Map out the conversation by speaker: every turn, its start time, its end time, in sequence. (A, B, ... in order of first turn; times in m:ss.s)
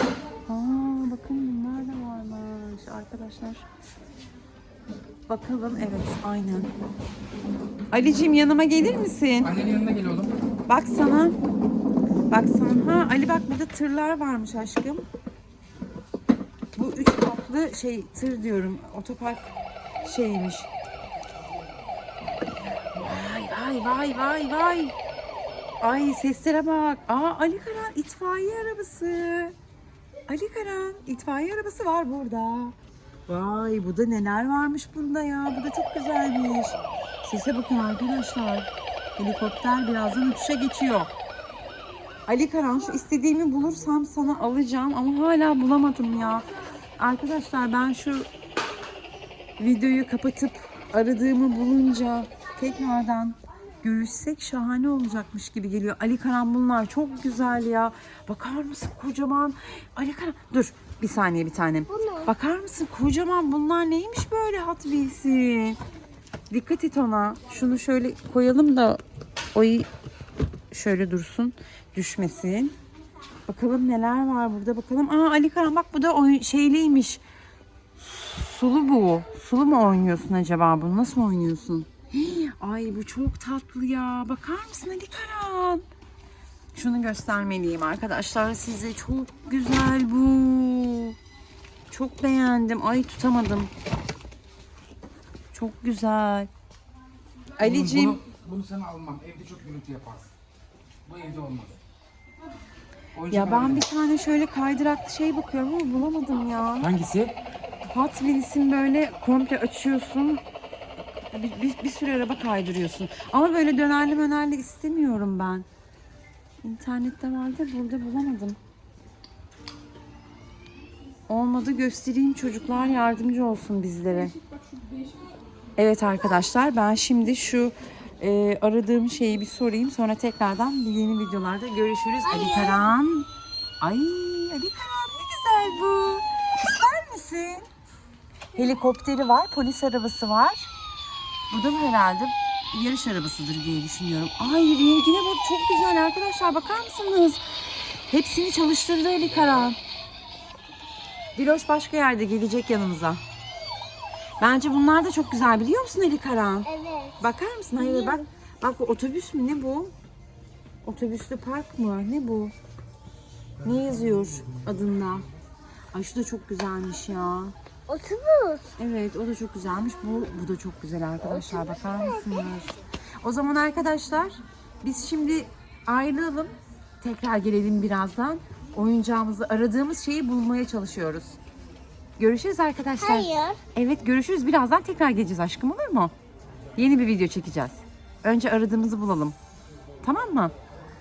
0:00.5-0:03.7 A
0:05.3-0:06.7 A
0:07.9-0:09.6 A
0:09.6-0:10.3 B
0:10.7-0:11.4 A
0:12.3-0:15.1 A
0:16.8-0:20.7 A
0:22.9-0:24.9 A
0:25.8-0:29.6 A
0:30.3-0:32.8 A
0:33.3-0:41.1 A
0:42.3-0:46.5 A
0:47.0-0:48.3 A
0:49.6-1:05.8 A
1:01.9-1:02.3 C
1:06.5-1:09.0 A
1:09.5-1:09.9 A
1:10.7-1:12.8 A
1:13.5-1:17.2 A
1:18.0-1:25.8 A
1:26.7-1:31.2 A
1:31.9-1:33.7 A
1:35.5-1:36.5 A
1:37.6-1:38.2 A
1:38.3-1:40.3 B
1:41.1-1:41.7 B
1:43.2-1:47.0 A
1:47.9-1:50.4 A
1:51.3-1:55.7 A
1:56.6-1:58.6 A
2:01.3-2:04.4 A
2:05.8-2:13.3 A
2:12.3-2:12.9 C
2:13.8-2:17.6 A
2:18.6-2:20.7 A
2:21.5-2:27.4 A
2:28.1-2:29.8 A
2:31.4-2:33.2 A
2:34.4-2:39.9 A
2:36.7-2:37.2 C
2:37.8-2:38.2 C
2:40.8-2:42.5 A
2:43.6-2:45.3 A
2:45.9-2:47.6 A
2:47.9-2:48.7 C
2:48.8-3:01.4 A
2:51.3-2:52.0 C
3:02.2-3:06.1 A
3:03.0-3:03.6 C
3:06.8-3:09.4 A
3:10.0-3:10.5 A